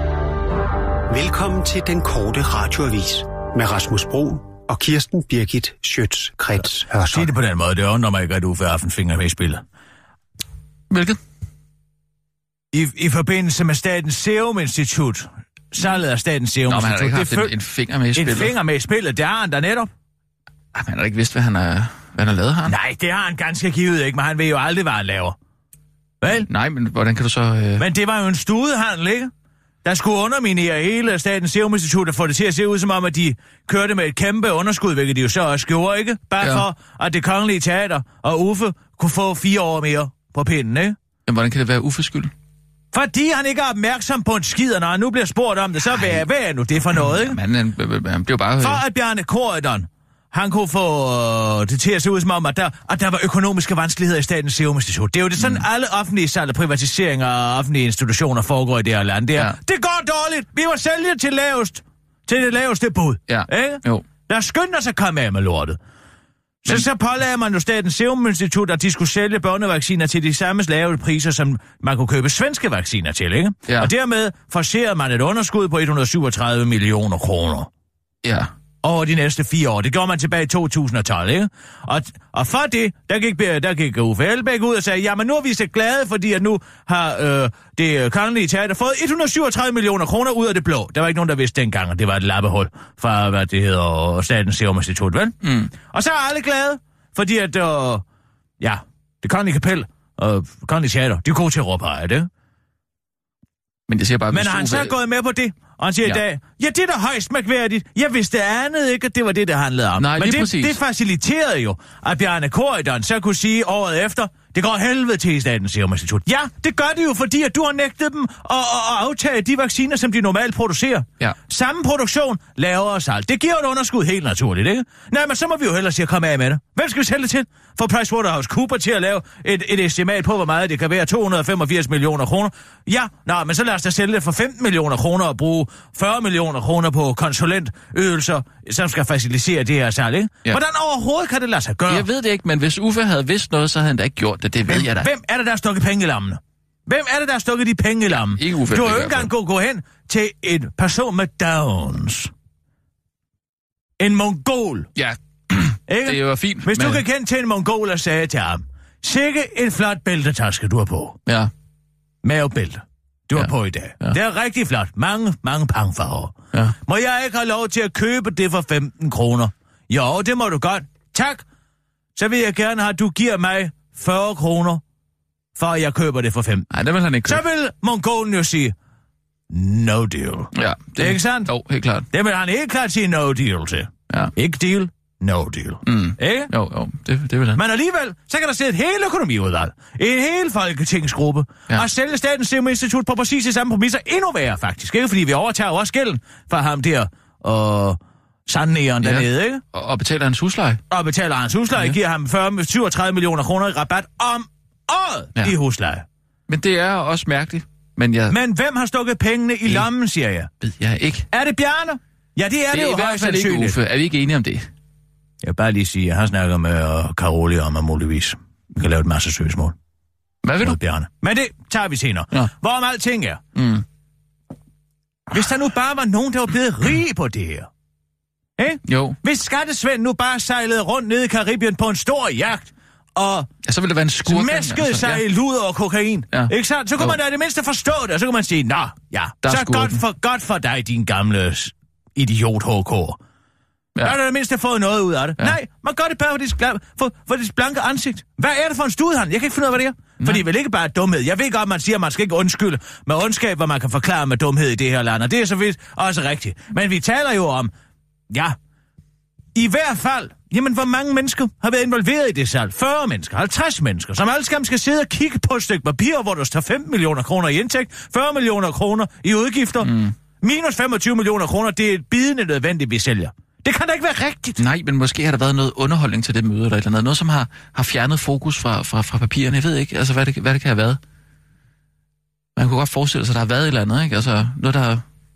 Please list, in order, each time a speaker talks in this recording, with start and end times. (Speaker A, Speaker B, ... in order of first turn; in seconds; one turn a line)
Speaker A: 1.1-7.3
Speaker B: 7.1-9.6
Speaker C: 10.9-11.2
Speaker B: 12.7-17.5
Speaker C: 16.7-18.6
Speaker B: 18.1-19.9
Speaker C: 20.7-22.8
Speaker B: 22.7-25.4
Speaker B: 26.2-26.5
Speaker C: 26.3-27.9
Speaker B: 27.8-29.3
Speaker B: 29.8-41.0
Speaker C: 36.4-36.7
Speaker C: 41.3-42.3
Speaker B: 42.9-47.4
Speaker C: 45.9-46.3
Speaker C: 46.9-48.8
Speaker B: 48.6-65.8
Speaker C: 55.4-55.6
Speaker C: 63.3-64.1
Speaker B: 66.6-77.7
Speaker C: 73.7-73.9
Speaker C: 78.2-78.5
Speaker B: 78.8-98.0
Speaker C: 95.4-95.7
Speaker B: 98.6-102.3
Speaker C: 103.9-105.0
Speaker B: 104.3-142.1
Speaker C: 110.0-110.8
Speaker C: 141.9-145.1
Speaker B: 144.7-152.3
Speaker C: 148.1-149.3
Speaker B: 154.0-154.9
Speaker C: 155.0-157.0
Speaker B: 155.9-161.2
Speaker B: 162.2-171.4
Speaker C: 163.4-164.2
Speaker B: 172.2-174.8
Speaker B: 175.6-176.7
Speaker C: 176.7-177.4
Speaker B: 177.3-178.7
Speaker B: 179.5-181.5
Speaker C: 180.5-182.1
Speaker B: 182.1-186.5
Speaker C: 185.8-187.6
Speaker B: 187.6-199.6
Speaker C: 199.0-200.8
Speaker B: 200.9-206.1
Speaker C: 206.5-208.4
Speaker B: 208.3-210.5
Speaker C: 210.6-211.3
Speaker B: 211.3-213.8
Speaker C: 212.7-214.7
Speaker B: 215.4-219.8
Speaker C: 220.4-220.8
Speaker B: 220.6-223.4
Speaker C: 223.6-223.8
Speaker B: 225.3-227.7
Speaker B: 228.6-233.5
Speaker C: 228.8-229.2
Speaker C: 233.6-235.3
Speaker B: 234.2-243.2
Speaker C: 236.3-237.2
Speaker C: 239.4-240.0
Speaker B: 244.0-257.7
Speaker B: 258.3-258.6
Speaker B: 259.6-274.6
Speaker C: 269.8-270.1
Speaker C: 274.6-281.0
Speaker C: 282.6-285.0